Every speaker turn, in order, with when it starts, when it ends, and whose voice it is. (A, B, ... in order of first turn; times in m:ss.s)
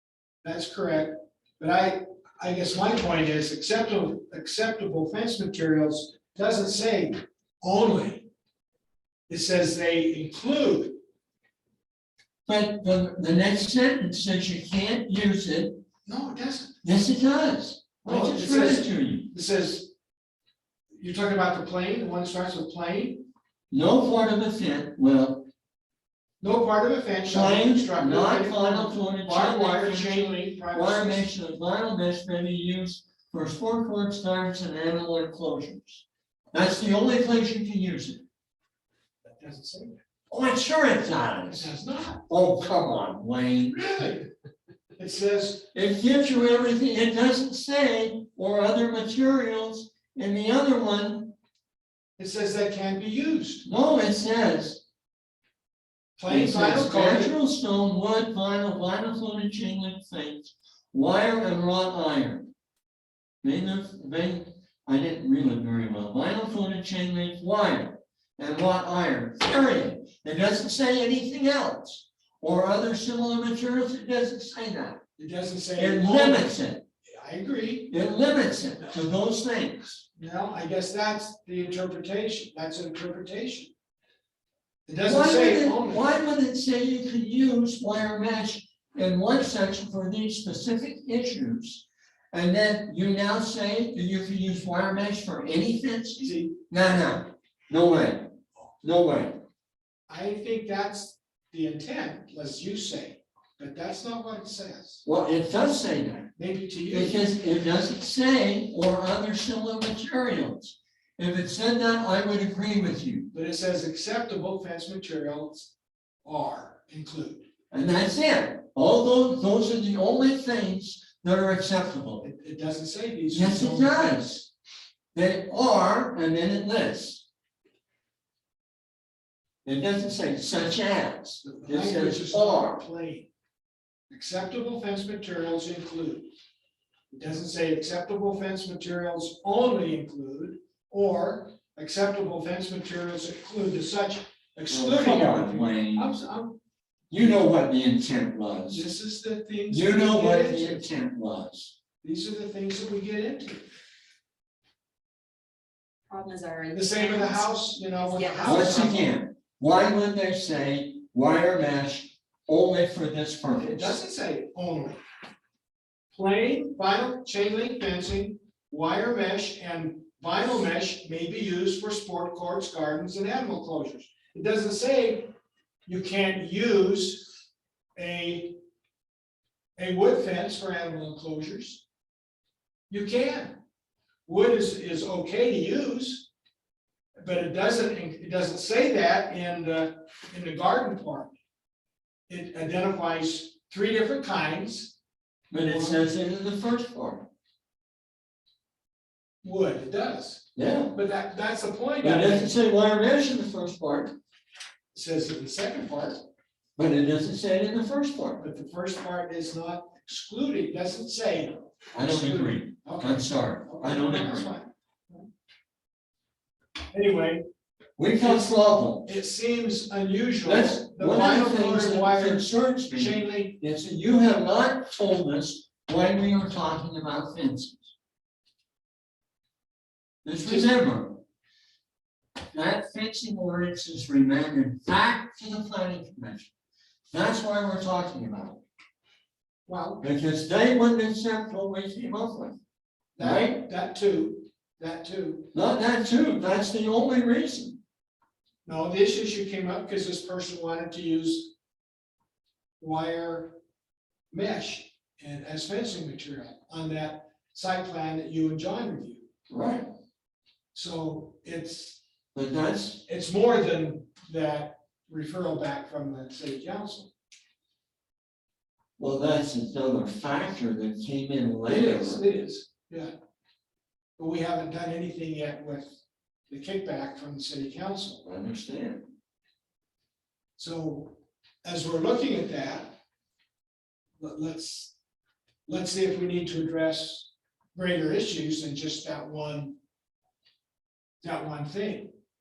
0:00.4-0:08.3 A
0:09.3-0:11.0 A
0:12.5-0:15.8 B
0:16.1-0:16.8 A
0:16.8-0:19.3 B
0:18.0-0:19.9 A
0:21.0-0:23.3 A
0:23.7-0:25.5 B
0:26.4-0:31.3 A
0:27.3-0:38.2 B
0:39.2-0:40.0 A
0:40.3-0:41.7 B
0:41.5-0:42.2 A
0:42.3-0:43.8 B
0:43.7-0:44.3 A
0:45.0-0:45.7 A
0:45.7-0:51.3 B
0:52.2-0:53.6 A
0:53.6-0:54.8 B
0:56.2-0:57.4 A
0:56.3-1:02.5 B
1:03.4-1:15.0 B
1:15.2-1:16.5 A
1:15.8-1:16.8 B
1:17.1-1:17.9 A
1:17.9-1:20.0 B
1:20.2-1:23.7 A
1:24.9-1:26.2 A
1:25.0-1:39.4 B
1:36.2-1:36.6 A
1:40.1-1:45.0 A
1:45.0-1:46.3 B
1:46.4-1:47.2 A
1:46.9-1:53.3 B
1:53.3-1:55.7 A
1:56.2-1:57.4 A
1:57.7-2:02.3 B
2:02.2-2:04.2 A
2:03.3-2:04.5 B
2:05.1-2:07.2 B
2:09.6-2:12.8 B
2:11.4-2:13.3 A
2:14.1-2:16.3 A
2:17.1-2:26.6 A
2:24.7-2:26.1 B
2:27.1-2:28.8 B
2:28.7-2:30.9 A
2:29.7-2:31.7 B
2:32.0-2:33.6 A
2:36.1-2:37.5 C
2:36.7-2:39.1 A
2:38.1-2:38.7 C
2:38.5-2:43.9 B
2:43.6-2:45.0 A
2:46.1-2:55.3 A
2:55.9-2:57.3 A
2:58.0-2:58.6 A
2:59.8-3:01.8 A
3:02.9-3:03.6 A
3:04.3-3:06.3 A
3:07.2-3:11.3 A
3:12.3-3:15.0 A
3:15.5-3:17.3 B
3:15.6-3:16.0 A
3:19.4-3:22.6 A
3:20.6-3:21.0 B
3:22.0-3:24.1 B
3:24.9-3:26.2 A
3:26.8-3:28.4 B
3:28.4-3:35.2 A
3:31.9-3:34.5 B
3:36.9-3:37.4 A
3:38.0-3:39.1 B
3:38.1-3:43.7 A
3:40.5-3:47.9 B
3:50.2-3:51.2 B
3:50.4-3:50.7 A
3:52.5-3:56.5 B
3:57.1-3:58.6 B
3:59.7-4:00.1 A
4:00.0-4:02.6 B
4:03.2-4:05.5 A
4:03.2-4:03.6 B
4:05.5-4:07.8 B
4:08.6-4:11.5 A
4:12.8-4:13.6 A
4:14.3-4:19.3 A
4:19.5-4:19.9 B
4:20.7-4:22.0 A
4:22.4-4:23.0 B
4:23.1-4:27.1 A
4:29.0-4:32.2 B
4:31.6-4:33.1 A
4:34.2-4:35.9 A
4:36.5-4:38.2 A
4:38.2-4:39.1 B
4:40.6-4:43.0 A
4:44.2-4:44.9 A
4:45.7-4:49.8 A
4:51.2-4:52.1 A